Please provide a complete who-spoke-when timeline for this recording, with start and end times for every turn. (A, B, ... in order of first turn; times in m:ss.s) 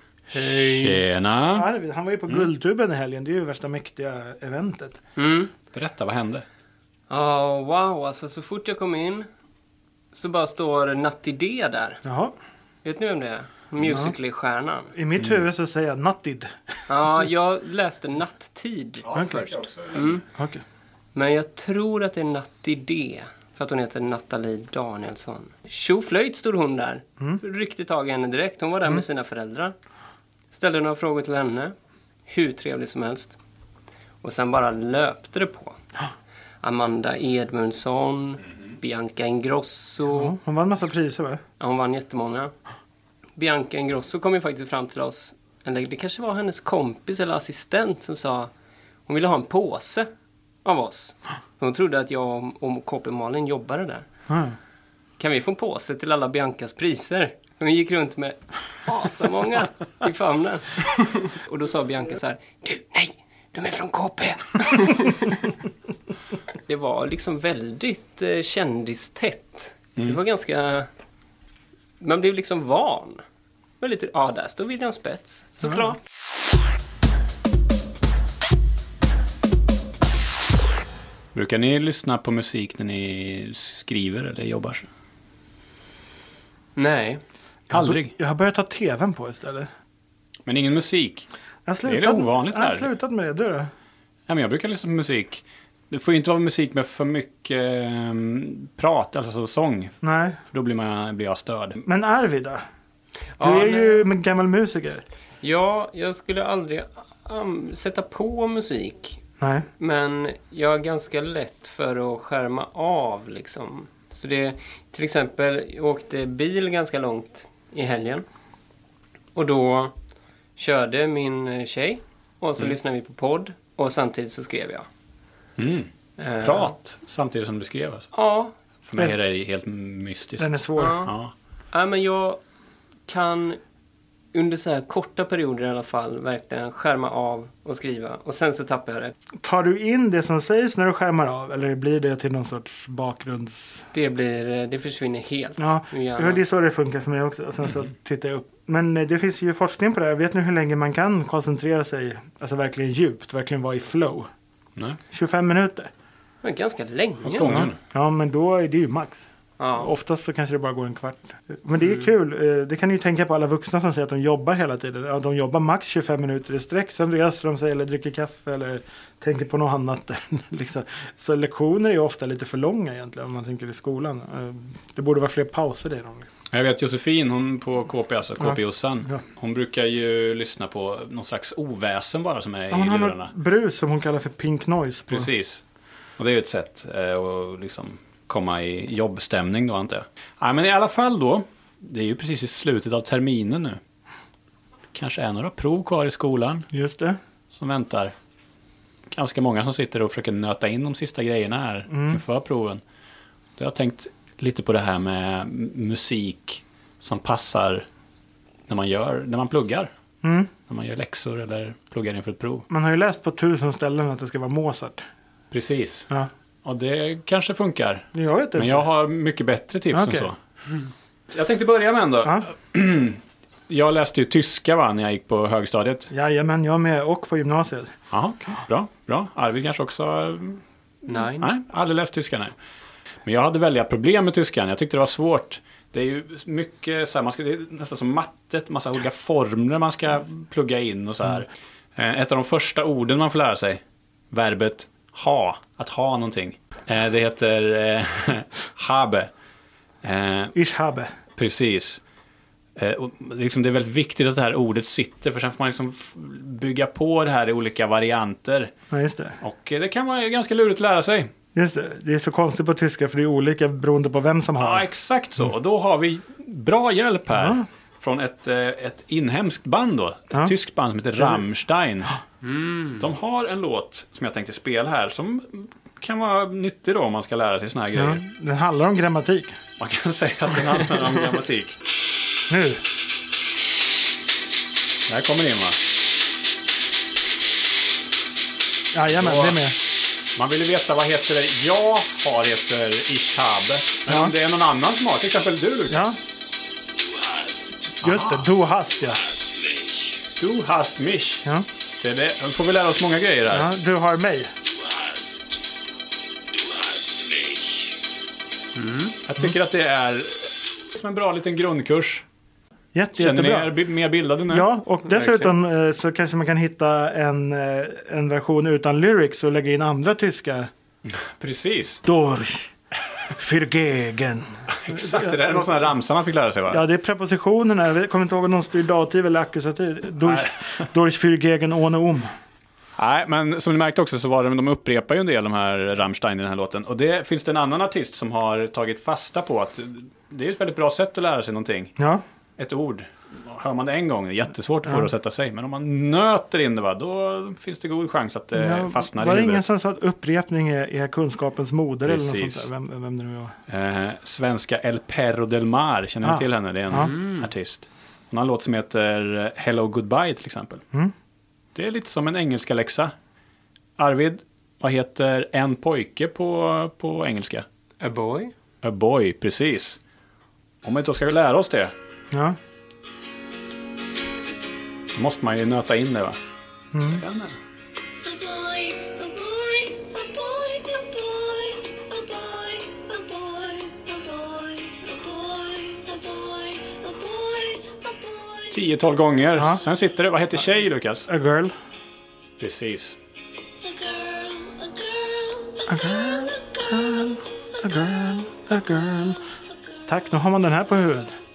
0:00.3-0:01.0 A
0:00.4-0:01.7 B
0:01.5-0:05.0 C
0:05.2-0:05.5 A
0:05.7-0:06.4 B
0:07.1-0:09.3 A
0:10.1-0:12.0 A
0:12.0-0:12.3 C
0:12.8-0:14.9 A
0:13.8-0:14.1 C
0:14.9-0:16.9 C
0:16.9-0:20.2 A
0:19.0-0:20.1 B
0:19.1-0:19.5 C
0:20.2-0:20.6 C
0:21.1-0:29.7 A
0:30.5-0:31.7 A
0:32.3-0:33.4 A
0:34.2-0:35.8 A
0:36.6-0:40.3 A
0:40.1-0:41.4 C
0:41.6-0:42.5 A
0:43.4-0:48.5 A
0:49.1-0:50.1 A
0:50.6-0:54.0 A
0:54.3-0:54.6 C
0:55.2-1:05.4 A
1:06.7-1:10.9 A
1:12.0-1:13.2 A
1:13.8-1:16.0 A
1:21.3-1:24.9 B
1:26.8-1:27.2 A
1:27.7-1:29.7 C
1:27.7-1:28.1 B
1:30.4-1:31.3 B
1:31.6-1:33.7 C
1:31.8-1:32.9 B
1:34.3-1:41.8 B
1:40.0-1:40.4 C
1:41.8-1:42.6 C
1:43.4-1:44.0 A
1:43.4-1:45.0 C
1:45.4-1:49.2 A
1:49.4-1:49.7 C
1:49.8-1:58.2 A
1:59.3-1:59.9 A
2:00.6-2:04.8 A
2:05.6-2:08.1 B
2:06.2-2:06.7 A
2:08.1-2:08.5 A
2:08.8-2:11.3 B
2:10.4-2:11.0 C
2:10.8-2:11.1 A
2:11.7-2:12.4 A
2:13.1-2:13.6 A
2:14.3-2:19.1 A
2:19.4-2:23.8 C
2:23.9-2:26.4 A
2:25.6-2:34.3 C
2:34.8-2:35.0 B
2:35.1-2:35.9 C
2:36.4-2:37.7 A
2:37.2-2:37.8 B
2:37.4-2:39.2 C
2:39.6-2:39.9 A
2:39.7-2:56.3 C
2:56.5-3:03.3 B
2:58.4-2:59.2 C
3:02.7-3:05.3 C
3:05.1-3:05.6 B
3:06.2-3:13.8 B
3:14.9-3:16.7 B
3:16.7-3:17.2 C
3:17.5-3:18.1 B
3:19.1-3:22.8 B
3:21.9-3:22.2 C
3:23.6-3:27.8 B
3:28.7-3:29.9 B
3:30.2-3:30.5 C
3:30.7-3:32.7 B
3:32.7-3:35.0 C
3:35.5-3:36.1 B
3:36.6-3:40.4 B
3:38.1-3:38.9 C
3:39.9-3:40.3 C
3:41.3-3:46.1 B
3:42.2-3:42.5 C
3:46.1-3:47.9 C
3:48.1-3:50.6 B
3:51.1-3:51.5 A
3:51.4-3:52.5 B
3:53.2-4:09.3 B
4:10.0-4:10.5 B
4:10.5-4:11.1 C
4:11.3-4:12.0 B
4:12.8-4:18.7 B
4:18.9-4:19.4 C
4:19.4-4:21.3 B
4:21.5-4:24.8 C
4:24.6-4:32.1 B
4:27.3-4:27.6 C
4:31.2-4:31.4 C
4:32.4-4:33.1 A
4:33.0-4:38.2 B
4:37.9-4:39.6 C
4:39.8-4:41.8 B
4:42.5-4:42.8 C
4:45.1-4:45.8 B
4:48.9-4:49.8 C
4:49.1-4:49.6 B
4:50.4-4:56.0 B
4:54.1-4:54.3 C
4:55.9-4:56.2 C
4:57.5-4:58.4 B
4:58.0-4:59.3 C
5:00.3-5:03.7 B
5:03.5-5:04.5 C
5:08.8-5:09.2 A
5:09.2-5:12.2 B
5:12.9-5:13.8 C
5:13.2-5:15.6 B
5:14.5-5:20.7 C
5:21.0-5:22.0 B
5:22.0-5:22.7 C
5:23.3-5:25.9 C
5:24.7-5:26.8 B
5:26.7-5:32.3 C
5:33.0-5:41.9 B
5:42.0-5:42.2 C
5:42.6-5:49.7 B
5:44.8-5:45.1 C
5:48.5-5:53.5 C
5:52.0-5:52.7 B
5:53.7-6:00.8 B
5:56.2-5:57.1 C
5:56.9-5:57.5 A
6:01.7-6:03.1 B
6:04.0-6:07.6 B
6:08.0-6:08.5 A
6:08.8-6:10.0 B
6:10.8-6:11.9 B
6:12.3-6:12.6 C
6:15.1-6:16.4 B
6:16.9-6:17.2 C
6:17.1-6:17.6 B
6:18.2-6:28.6 D
6:28.7-6:31.3 B
6:29.5-6:29.8 C
6:31.3-6:31.7 C
6:32.6-6:33.2 B
6:34.0-6:35.0 D
6:35.9-6:39.4 C
6:40.1-6:41.3 C